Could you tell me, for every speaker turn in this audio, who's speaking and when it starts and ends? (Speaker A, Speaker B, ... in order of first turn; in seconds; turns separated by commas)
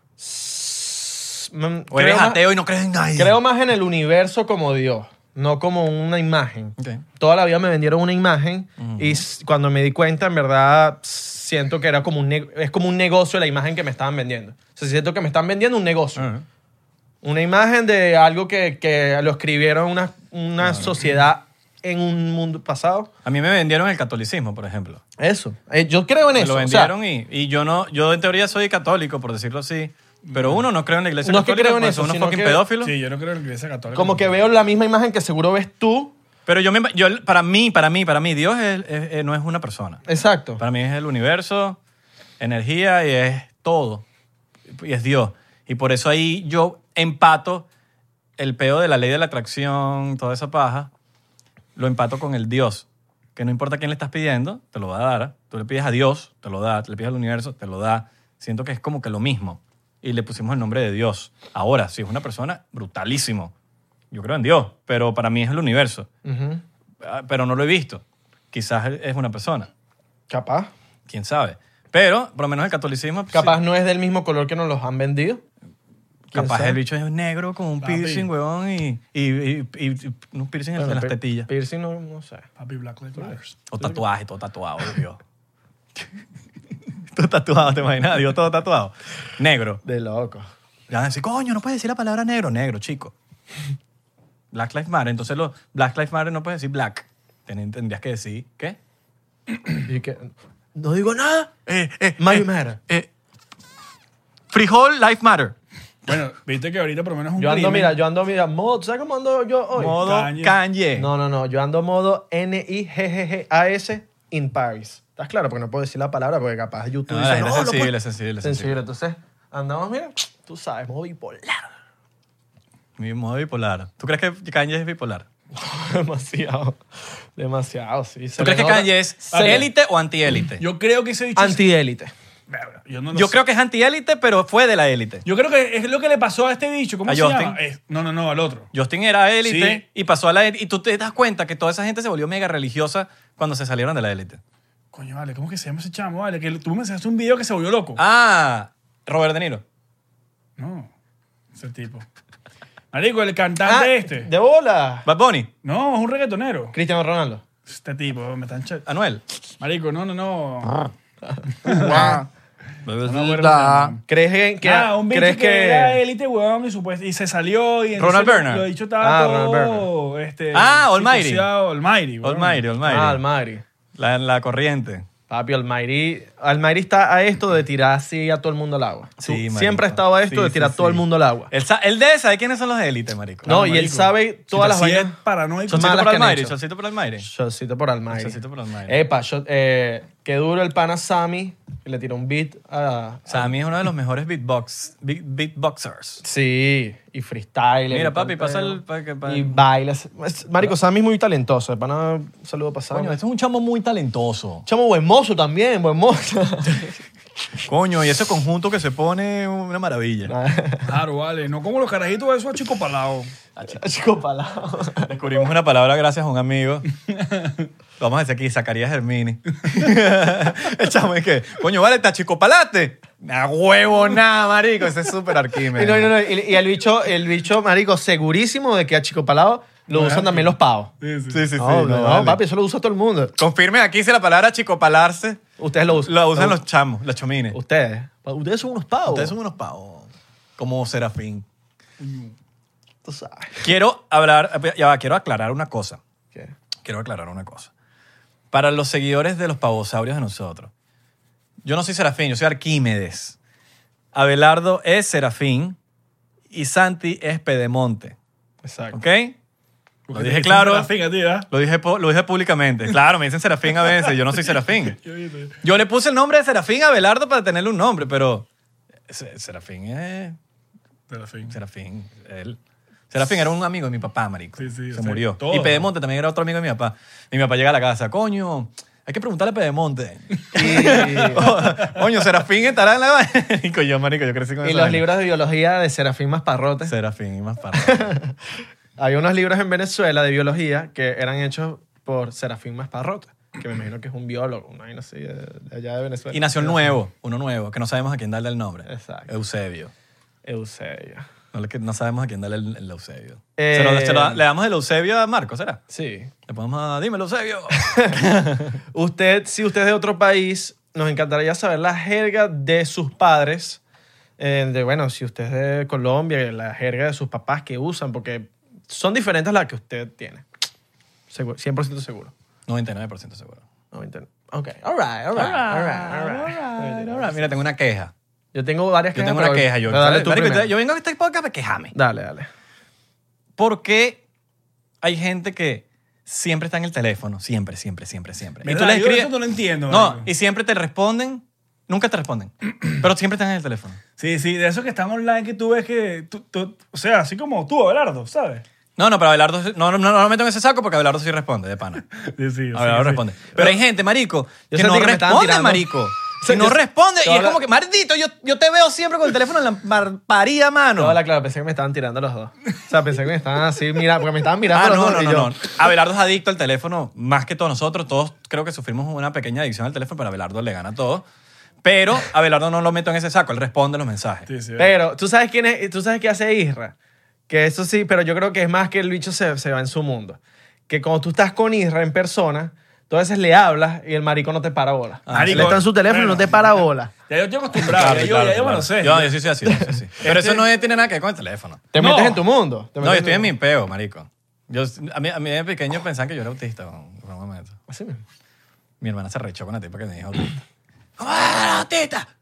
Speaker A: 0.2-2.4, Speaker B: 1.9-3.4, Speaker A: 3.1-16.2, Speaker B: 6.8-7.0, Speaker B: 8.8-9.2, Speaker B: 16.2-16.4, Speaker A: 17.2-23.1, Speaker B: 23.2-25.0, Speaker A: 25.2-26.9, Speaker B: 26.4-32.9, Speaker C: 30.2-30.6, Speaker A: 31.2-32.6, Speaker C: 32.8-34.3, Speaker A: 33.9-36.1, Speaker B: 36.5-40.0, Speaker A: 40.1-40.6, Speaker B: 40.6-41.8, Speaker B: 42.4-44.0, Speaker B: 44.7-47.7, Speaker B: 48.4-50.9, Speaker B: 51.8-63.5, Speaker B: 64.1-66.1, Speaker A: 66.2-66.6, Speaker B: 67.0-69.7, Speaker A: 70.3-70.7, Speaker B: 71.1-73.6, Speaker A: 73.3-75.4, Speaker B: 76.3-81.5, Speaker A: 76.3-76.8, Speaker C: 77.8-78.3, Speaker A: 80.8-82.5, Speaker C: 82.6-84.0, Speaker B: 83.7-85.2, Speaker B: 87.1-89.8, Speaker A: 89.8-90.5, Speaker B: 90.9-93.1, Speaker B: 94.5-98.8, Speaker A: 99.8-101.6, Speaker B: 101.7-103.1, Speaker A: 102.2-102.8, Speaker B: 104.5-105.6, Speaker C: 106.1-108.0, Speaker A: 107.4-110.0, Speaker B: 109.8-111.1, Speaker C: 110.0-110.6, Speaker A: 111.0-121.7, Speaker B: 117.1-118.8, Speaker B: 123.0-125.3, Speaker A: 125.5-126.8, Speaker A: 127.3-129.7, Speaker B: 128.4-130.6, Speaker C: 129.3-129.7, Speaker C: 130.6-131.6, Speaker A: 131.4-132.1, Speaker C: 132.5-133.4, Speaker B: 133.1-135.2, Speaker C: 135.2-138.7, Speaker B: 137.1-137.6, Speaker B: 138.7-144.4, Speaker C: 139.4-139.8, Speaker C: 144.9-148.0, Speaker B: 148.0-149.6, Speaker C: 150.6-150.9, Speaker C: 151.5-152.1, Speaker C: 152.9-154.3, Speaker A: 153.6-155.1, Speaker B: 155.1-155.5, Speaker C: 155.6-156.8, Speaker A: 156.7-157.4, Speaker C: 157.7-158.8, Speaker B: 158.9-159.2, Speaker C: 159.6-160.9, Speaker A: 161.3-162.2, Speaker C: 161.6-162.2, Speaker B: 161.7-162.2, Speaker B: 162.8-164.0, Speaker C: 163.1-164.0, Speaker A: 164.1-166.0, Speaker C: 164.6-172.6, Speaker B: 168.0-168.7, Speaker A: 169.0-169.9, Speaker B: 170.5-171.5, Speaker B: 172.2-173.2, Speaker A: 172.8-173.6, Speaker B: 174.0-175.1, Speaker A: 175.3-181.5, Speaker B: 179.2-183.6, Speaker C: 183.4-186.1, Speaker A: 183.5-185.2, Speaker A: 185.7-186.6, Speaker B: 185.7-187.3, Speaker A: 187.2-193.5, Speaker B: 188.1-189.0, Speaker B: 193.3-196.2, Speaker A: 196.2-203.2, Speaker B: 197.9-199.6, Speaker B: 202.9-204.7, Speaker A: 204.7-207.0, Speaker B: 207.7-210.3, Speaker A: 210.3-210.9, Speaker C: 210.8-213.3, Speaker A: 213.7-215.2, Speaker B: 215.1-216.9, Speaker C: 217.2-217.6, Speaker B: 218.0-226.1, Speaker A: 225.7-230.9, Speaker C: 229.9-231.5, Speaker B: 231.3-232.4, Speaker A: 231.6-233.3, Speaker B: 233.4-235.4, Speaker A: 235.6-236.6, Speaker B: 236.1-237.6, Speaker A: 237.5-239.3, Speaker B: 239.1-241.4, Speaker C: 242.0-242.3, Speaker A: 243.1-243.7, Speaker B: 243.6-246.0, Speaker B: 246.8-247.7, Speaker B: 248.5-250.7, Speaker B: 251.6-253.4, Speaker B: 254.1-255.8, Speaker B: 256.5-258.2, Speaker A: 258.6-259.0, Speaker B: 258.9-259.4, Speaker C: 260.1-261.5, Speaker B: 260.1-260.9, Speaker B: 261.5-265.0, Speaker C: 263.8-265.6, Speaker B: 265.6-268.5, Speaker B: 269.1-270.4, Speaker C: 271.1-271.5, Speaker B: 271.5-272.6, Speaker B: 273.1-285.1, Speaker C: 274.6-275.9, Speaker A: 280.5-281.5, Speaker C: 280.9-281.2, Speaker A: 284.6-286.9, Speaker B: 286.9-288.1, Speaker A: 287.7-288.4, Speaker A: 289.0-296.9, Speaker B: 296.3-299.9, Speaker A: 298.9-299.3, Speaker A: 300.4-301.2, Speaker B: 301.5-305.8, Speaker A: 303.6-304.4, Speaker A: 305.9-306.3, Speaker B: 306.5-308.8, Speaker A: 307.7-308.2, Speaker A: 308.9-313.8, Speaker A: 314.4-320.5, Speaker A: 321.3-322.3, Speaker B: 322.7-323.6, Speaker A: 323.9-327.5, Speaker B: 325.4-328.1, Speaker A: 328.5-330.7, Speaker B: 329.1-331.9, Speaker A: 331.9-332.5, Speaker B: 333.6-334.2, Speaker B: 335.0-339.3, Speaker C: 338.6-340.3, Speaker B: 339.9-344.0, Speaker C: 344.2-348.6, Speaker B: 349.0-352.1, Speaker C: 352.2-353.2, Speaker B: 352.7-361.2, Speaker A: 354.7-357.6, Speaker A: 361.0-365.6, Speaker B: 364.7-371.2, Speaker B: 371.8-374.5, Speaker C: 374.5-374.9, Speaker A: 374.8-376.9, Speaker A: 377.5-387.1, Speaker B: 385.3-385.8, Speaker C: 385.3-389.4, Speaker B: 387.8-391.8, Speaker A: 389.7-390.0, Speaker C: 390.2-390.6, Speaker A: 391.9-393.5, Speaker C: 392.0-392.4, Speaker B: 393.0-397.8, Speaker A: 397.9-398.2, Speaker B: 399.0-400.6, Speaker B: 401.2-402.3